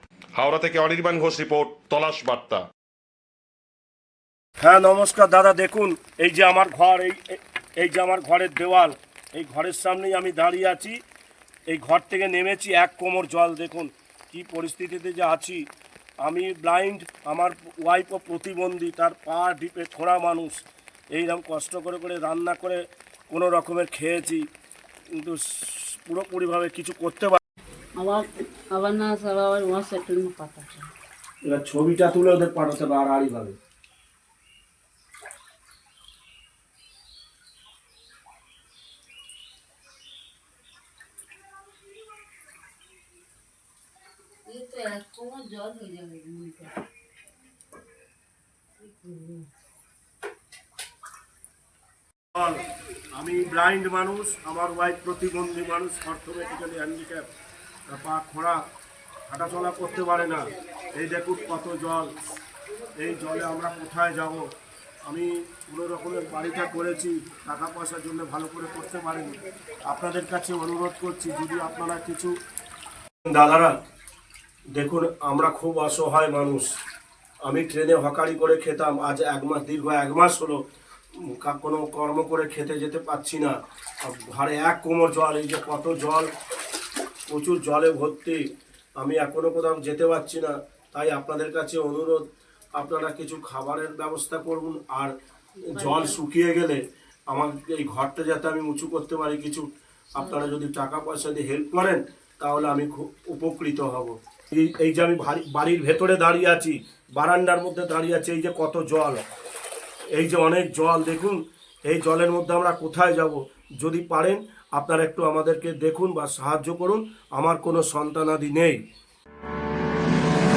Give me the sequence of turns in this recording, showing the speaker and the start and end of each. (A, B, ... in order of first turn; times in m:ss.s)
0:00.4-0:02.6 A
0:04.6-0:11.0 B
0:11.7-0:15.6 B
0:16.2-0:24.5 B
0:25.1-0:27.4 B
0:28.0-0:30.9 C
0:31.4-0:33.6 B
0:44.5-0:46.7 C
0:48.8-0:49.5 C
0:52.3-0:52.6 B
0:53.1-0:57.2 B
0:57.9-0:58.6 B
0:59.3-1:00.4 B
1:00.9-1:02.1 B
1:03.0-1:04.4 B
1:05.0-1:12.3 B
1:13.3-1:13.7 B
1:14.7-1:16.7 B
1:17.4-1:20.6 B
1:21.2-1:26.3 B
1:27.3-1:28.4 B
1:29.0-1:32.2 B
1:32.8-1:35.1 B
1:35.7-1:49.2 B
1:35.7-1:36.2 C
1:50.2-1:58.8 B